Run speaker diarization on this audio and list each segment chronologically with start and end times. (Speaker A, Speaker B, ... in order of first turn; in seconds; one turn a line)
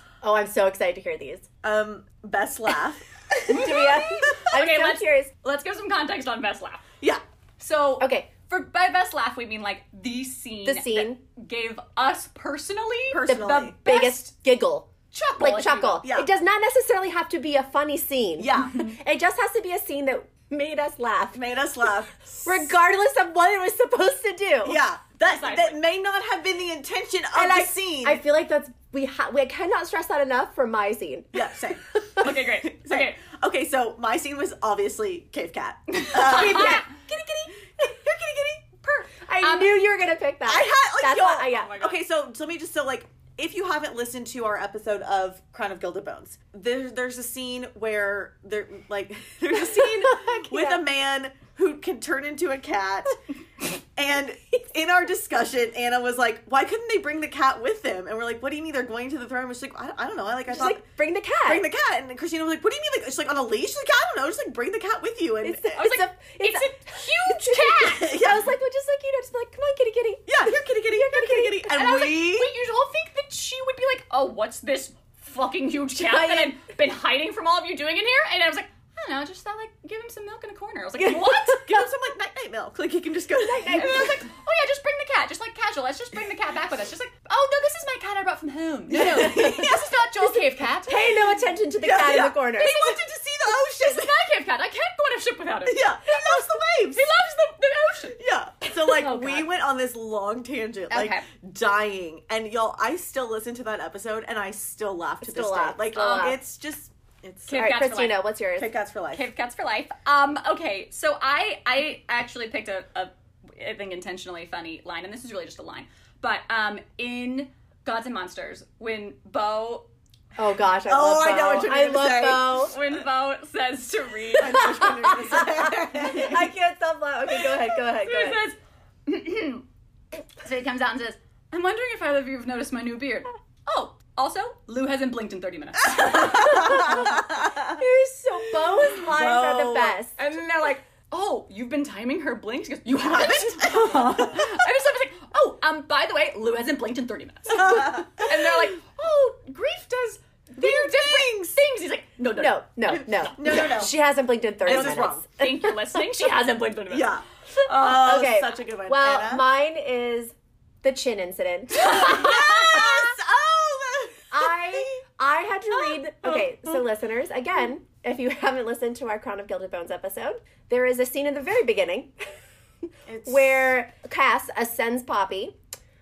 Speaker A: 0.2-1.5
Speaker B: 1.6-4.4
Speaker C: 3.4-6.8
Speaker A: 3.5-5.3
Speaker C: 7.6-14.3
Speaker A: 8.0-8.3
Speaker A: 10.6-11.2
Speaker B: 13.1-13.8
Speaker A: 13.2-21.4
Speaker C: 15.1-16.0
Speaker B: 16.0-16.3
Speaker B: 18.4-18.9
Speaker B: 21.3-22.7
Speaker A: 22.4-24.8
Speaker B: 24.6-28.2
Speaker C: 25.2-25.8
Speaker A: 27.3-31.5
Speaker B: 31.3-36.9
Speaker A: 32.0-32.3
Speaker C: 32.2-33.2
Speaker C: 35.9-37.0
Speaker A: 36.2-37.5
Speaker C: 38.6-39.8
Speaker A: 39.2-41.9
Speaker B: 40.4-60.8
Speaker C: 41.7-41.9
Speaker A: 50.0-50.8
Speaker A: 60.5-61.6
Speaker B: 61.4-65.9
Speaker A: 65.4-71.7
Speaker C: 65.7-68.2
Speaker B: 67.8-68.5
Speaker B: 70.3-72.5
Speaker C: 71.7-81.7
Speaker A: 76.1-76.5
Speaker B: 81.0-84.2
Speaker A: 83.4-84.2
Speaker C: 83.7-91.3
Speaker B: 88.9-89.9
Speaker A: 89.1-89.5
Speaker A: 90.8-92.8
Speaker B: 91.8-94.1
Speaker C: 92.5-96.3
Speaker B: 95.6-97.1
Speaker C: 96.9-98.2
Speaker B: 98.1-107.8
Speaker C: 98.8-99.5
Speaker C: 100.9-101.2
Speaker A: 105.2-106.4
Speaker C: 105.9-106.3
Speaker C: 107.5-108.2
Speaker A: 107.5-108.7
Speaker B: 108.6-109.3
Speaker C: 109.1-119.9
Speaker A: 120.4-122.7
Speaker B: 120.9-122.8
Speaker C: 122.6-124.8
Speaker B: 124.3-126.5
Speaker A: 124.5-128.4
Speaker C: 127.9-129.6
Speaker C: 130.3-137.2
Speaker B: 135.8-137.8
Speaker A: 136.3-140.1
Speaker B: 138.6-140.0
Speaker C: 140.2-152.6
Speaker B: 142.9-144.7
Speaker B: 147.5-148.6
Speaker B: 150.5-151.6
Speaker A: 152.4-156.0
Speaker B: 152.9-153.9
Speaker B: 154.6-155.2
Speaker C: 154.7-158.2
Speaker B: 156.9-159.4
Speaker A: 157.8-162.9
Speaker C: 161.8-162.9
Speaker B: 161.8-165.0
Speaker A: 164.3-172.1
Speaker B: 165.7-166.5
Speaker B: 173.1-173.8
Speaker A: 173.2-175.6